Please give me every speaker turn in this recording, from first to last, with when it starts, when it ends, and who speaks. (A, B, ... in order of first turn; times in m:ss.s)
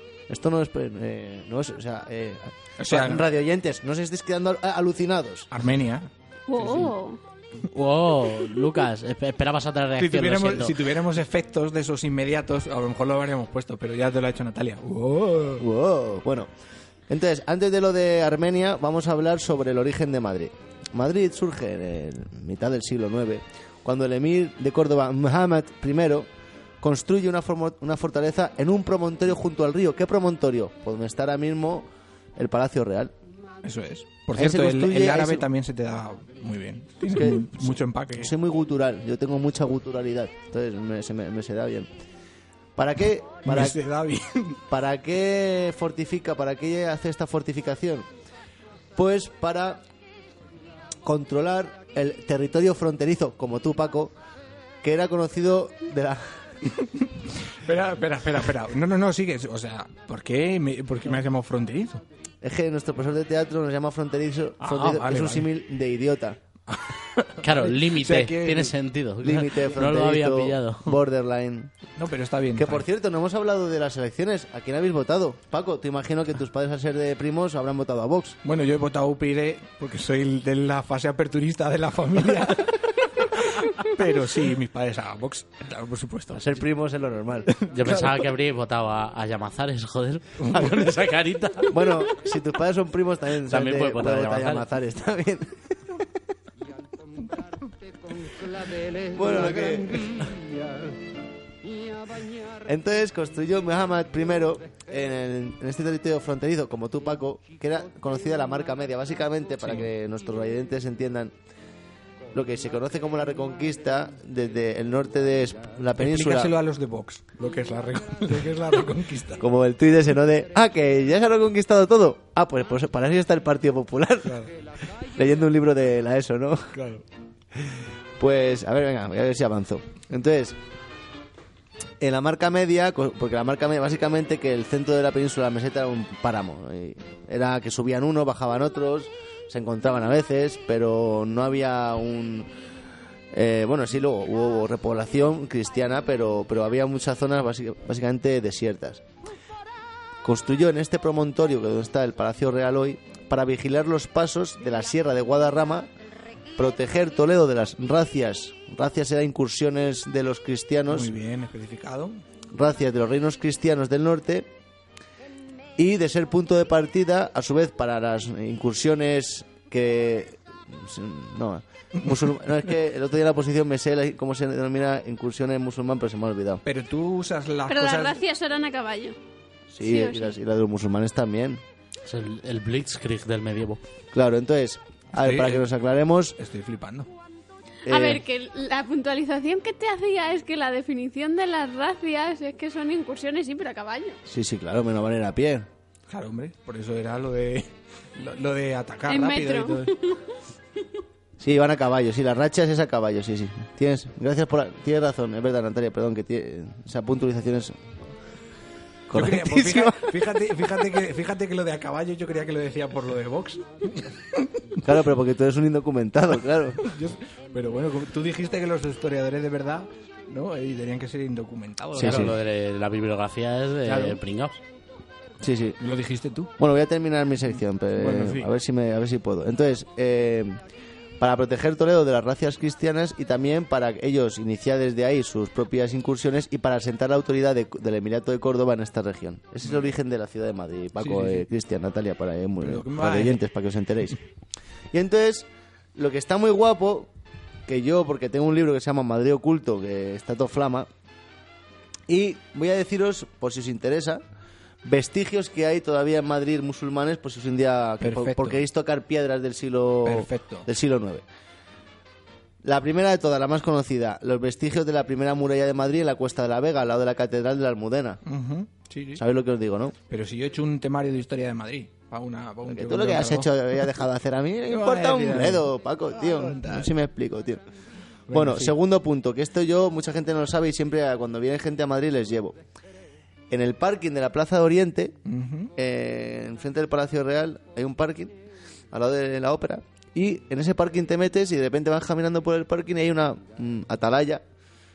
0:00.3-0:05.5 A
0:02.8-0:03.3 B
0:05.5-0:06.1 B
0:06.5-0:07.2 C
0:07.6-0:10.8 D
0:10.0-0:15.6 B
0:15.6-0:16.5 A
0:17.1-0:26.3 A
0:26.8-0:33.1 A
0:33.6-0:38.3 B
0:34.3-0:35.5 A
0:37.1-0:41.9 A
0:42.8-0:43.8 A
0:43.4-0:44.6 B
0:44.7-0:48.1 A
0:49.0-0:49.8 A
0:51.0-0:54.1 A
0:54.8-0:56.4 A
0:57.5-1:02.0 B
1:02.4-1:06.4 A
1:04.6-1:05.5 B
1:06.7-1:08.7 B
1:07.4-1:11.0 D
1:09.2-1:11.7 A
1:12.0-1:12.8 B
1:12.6-1:18.4 A
1:18.4-1:26.6 B
1:26.3-1:27.5 A
1:27.6-1:28.3 B
1:27.6-1:31.9 D
1:30.5-1:30.8 B
1:31.7-1:35.6 A
1:33.5-1:34.7 D
1:36.9-1:41.0 E
1:39.1-1:40.2 A
1:41.7-1:42.6 E
1:42.7-1:51.3 A
1:49.6-1:49.9 B
1:52.3-1:56.6 A
1:56.0-1:59.4 B
1:59.4-2:04.5 A
2:04.2-2:04.5 B
2:05.1-2:06.7 A
2:06.7-2:07.0 B
2:07.6-2:10.6 A
2:12.0-2:22.5 A
2:23.3-2:29.0 A
2:30.2-2:35.9 A
2:36.6-2:41.1 A
2:40.9-2:42.2 B
2:42.5-2:44.5 A
2:45.8-2:56.6 A
2:56.6-2:58.2 B
2:57.7-2:59.2 C
2:59.7-3:01.6 A
2:59.8-3:00.4 C
3:02.1-3:03.8 D
3:04.1-3:06.4 A
3:05.2-3:05.7 B
3:06.4-3:07.1 B
3:07.9-3:08.2 A
3:07.9-3:14.2 C
3:14.3-3:15.7 A
3:16.1-3:20.0 B
3:19.1-3:20.2 C
3:21.4-3:27.8 A
3:29.1-3:30.4 A
3:29.1-3:34.6 B
3:34.8-3:36.9 A
3:36.8-3:42.4 B
3:42.0-3:44.6 D
3:42.0-3:42.3 A
3:43.9-3:44.2 B
3:45.4-3:45.8 A
3:45.8-3:46.5 B
3:46.6-3:50.6 A
3:48.0-3:48.5 B
3:51.2-4:04.2 A
4:01.0-4:01.4 B
4:02.6-4:03.4 B
4:04.9-4:07.1 A
4:07.7-4:10.9 A
4:12.1-4:14.2 A
4:14.8-4:21.2 A
4:18.0-4:18.6 B
4:20.0-4:20.7 B
4:22.6-4:28.2 A
4:28.2-4:29.2 B
4:29.2-4:30.0 A
4:30.1-4:33.5 B
4:32.6-4:37.6 A
4:34.7-4:36.9 B
4:38.3-4:38.8 B
4:38.3-4:42.6 A
4:43.5-4:45.2 A
4:45.3-4:45.7 B
4:45.8-4:48.4 A
4:48.9-4:54.4 A